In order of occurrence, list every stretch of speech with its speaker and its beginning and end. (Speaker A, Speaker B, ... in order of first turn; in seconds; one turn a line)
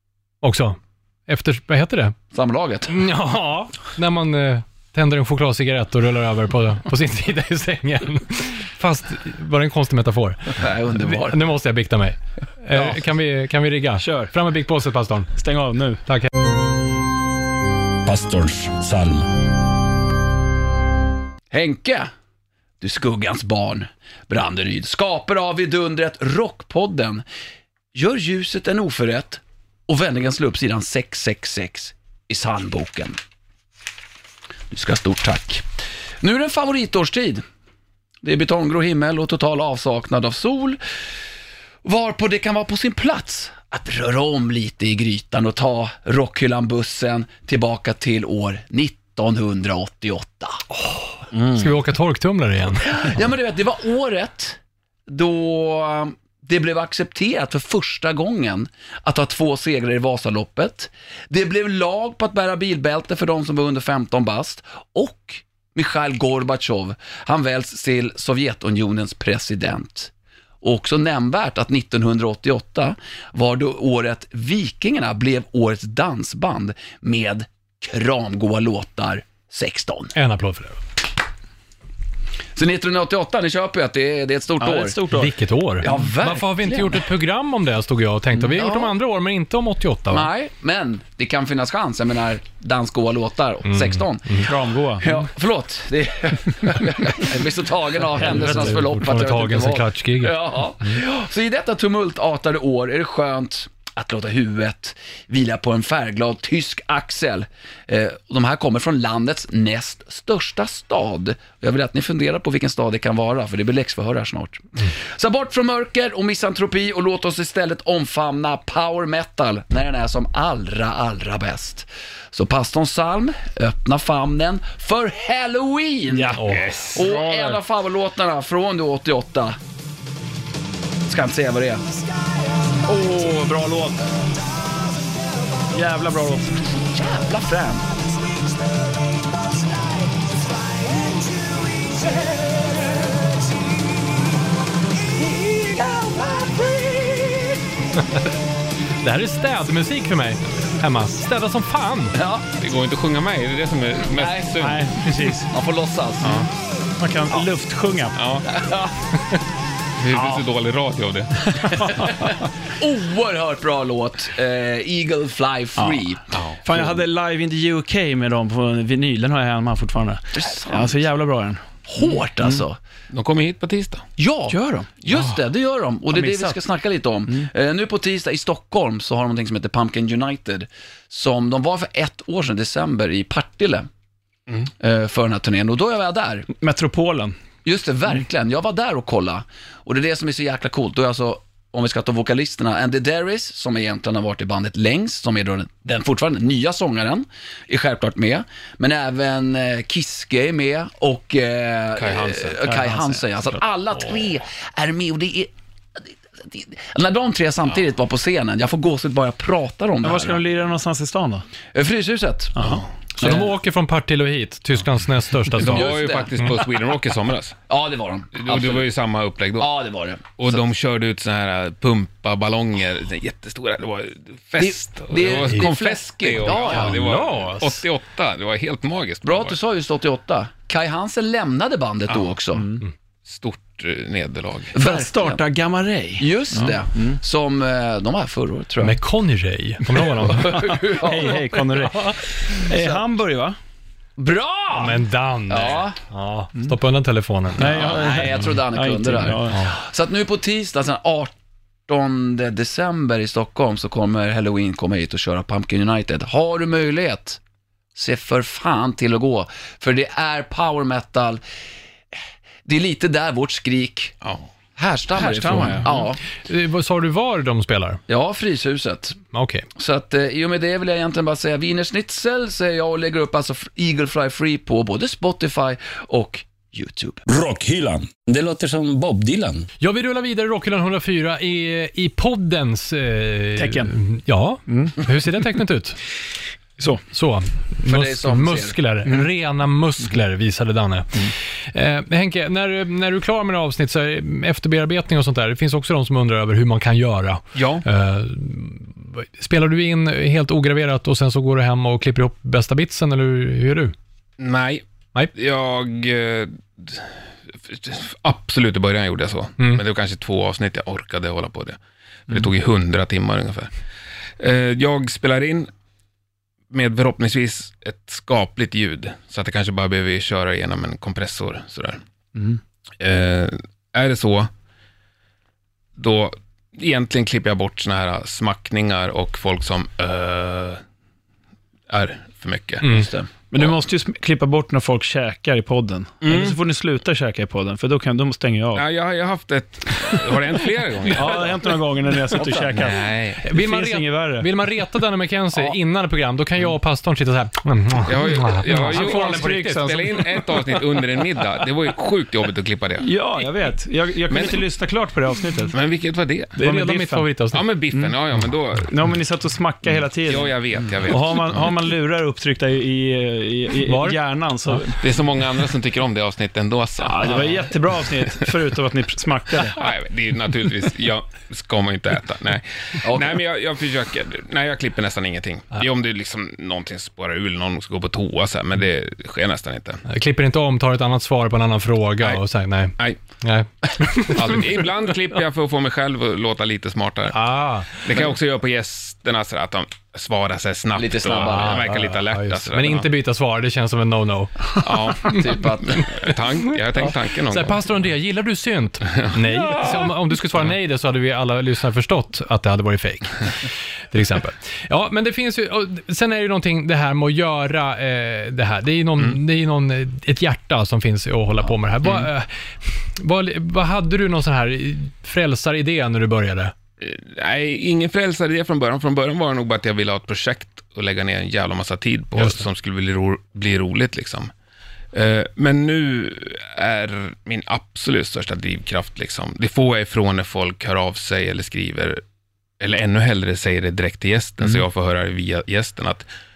Speaker A: 0.4-2.1
Speaker B: 2.3-3.0
Speaker A: 2.9-15.3
Speaker B: 10.5-11.4
Speaker C: 14.0-14.3
Speaker C: 15.3-16.0
Speaker D: 18.0-19.2
Speaker B: 21.5-22.1
Speaker B: 22.8-27.2
Speaker B: 27.9-33.2
Speaker B: 34.7-35.7
Speaker B: 36.2-37.4
Speaker B: 38.2-40.8
Speaker B: 41.8-50.6
Speaker A: 50.8-53.1
Speaker B: 51.3-51.6
Speaker B: 52.8-70.1
Speaker B: 70.6-80.1
Speaker A: 80.1-80.8
Speaker B: 82.5-85.0
Speaker C: 84.6-85.3
Speaker A: 85.1-90.3
Speaker B: 85.8-87.0
Speaker B: 88.4-88.9
Speaker B: 90.1-129.6
Speaker A: 93.7-94.5
Speaker C: 94.4-95.2
Speaker A: 98.2-101.0
Speaker C: 98.3-98.6
Speaker C: 126.1-126.4
Speaker A: 126.3-126.6
Speaker E: 126.4-127.6
Speaker B: 131.1-131.8
Speaker C: 132.8-134.1
Speaker C: 135.7-136.6
Speaker B: 136.8-137.9
Speaker B: 141.7-142.8
Speaker B: 145.2-147.6
Speaker A: 149.0-152.2
Speaker B: 152.1-152.4
Speaker E: 152.6-154.9
Speaker B: 154.1-154.7
Speaker C: 154.6-155.5
Speaker B: 155.2-156.5
Speaker E: 156.2-156.5
Speaker C: 157.0-158.2
Speaker E: 158.1-158.5
Speaker B: 158.4-159.0
Speaker E: 160.0-162.0
Speaker B: 160.1-160.4
Speaker B: 161.7-167.0
Speaker C: 165.8-166.1
Speaker E: 166.3-166.6
Speaker C: 166.6-171.7
Speaker B: 170.3-171.0
Speaker B: 171.9-172.8
Speaker E: 173.1-174.1
Speaker B: 174.2-183.9
Speaker C: 174.5-174.9
Speaker C: 176.1-176.6
Speaker B: 184.8-186.5
Speaker C: 186.6-187.3
Speaker B: 187.6-210.4
Speaker E: 201.9-202.6
Speaker C: 202.6-203.6
Speaker C: 210.0-211.4
Speaker B: 211.7-213.5
Speaker A: 213.2-215.9
Speaker E: 215.6-217.6
Speaker B: 215.6-216.6
Speaker B: 217.7-218.8
Speaker E: 218.3-219.7
Speaker B: 219.6-220.6
Speaker E: 220.4-229.6
Speaker B: 224.6-227.0
Speaker A: 226.5-227.8
Speaker B: 229.2-232.7
Speaker C: 232.5-232.8
Speaker E: 233.2-234.7
Speaker B: 234.7-235.4
Speaker C: 234.8-237.2
Speaker B: 236.2-239.0
Speaker A: 238.8-240.9
Speaker B: 240.0-241.8
Speaker C: 240.5-243.6
Speaker B: 242.6-243.0
Speaker B: 244.2-245.9
Speaker A: 244.7-247.8
Speaker C: 247.6-249.6
Speaker B: 247.6-251.3
Speaker B: 251.9-257.4
Speaker B: 257.9-261.4
Speaker B: 262.6-264.1
Speaker B: 264.8-266.2
Speaker C: 265.1-265.9
Speaker A: 266.4-268.0
Speaker B: 268.1-269.2
Speaker A: 269.3-269.7
Speaker B: 269.8-277.2
Speaker D: 277.3-279.7
Speaker A: 279.8-286.0
Speaker C: 283.6-283.9
Speaker C: 284.7-285.0
Speaker A: 287.1-303.9
Speaker B: 287.8-288.8
Speaker E: 297.5-297.8
Speaker E: 304.4-304.8
Speaker E: 305.3-307.1
Speaker E: 307.6-313.7
Speaker E: 314.4-315.7
Speaker E: 316.7-322.0
Speaker E: 323.0-324.5
Speaker E: 326.0-330.8
Speaker E: 331.9-333.7
Speaker A: 332.8-333.1
Speaker B: 332.8-333.3
Speaker C: 333.5-338.8
Speaker E: 336.2-336.6
Speaker E: 338.7-341.8
Speaker C: 341.1-344.5
Speaker B: 342.3-342.9
Speaker E: 342.4-343.4
Speaker A: 343.4-349.9
Speaker E: 348.0-353.1
Speaker C: 348.7-350.5
Speaker C: 353.0-355.8
Speaker E: 354.3-354.6
Speaker E: 355.7-356.5
Speaker C: 356.6-357.3
Speaker A: 356.6-357.6
Speaker E: 357.5-358.9
Speaker C: 358.8-360.5
Speaker E: 360.2-361.6
Speaker C: 361.1-365.0
Speaker A: 363.9-364.8
Speaker E: 365.0-367.7
Speaker C: 367.0-369.8
Speaker E: 369.6-380.0
Speaker B: 373.0-373.4
Speaker A: 380.1-384.6
Speaker E: 384.1-387.4
Speaker A: 387.3-388.0
Speaker E: 387.9-393.1
Speaker B: 390.9-391.9
Speaker A: 391.4-395.4
Speaker E: 394.8-397.9
Speaker B: 395.2-396.1
Speaker A: 397.5-403.5
Speaker E: 399.1-399.3
Speaker A: 404.1-416.7
Speaker E: 417.0-424.5
Speaker A: 422.4-422.6
Speaker E: 425.1-432.2
Speaker E: 432.8-436.2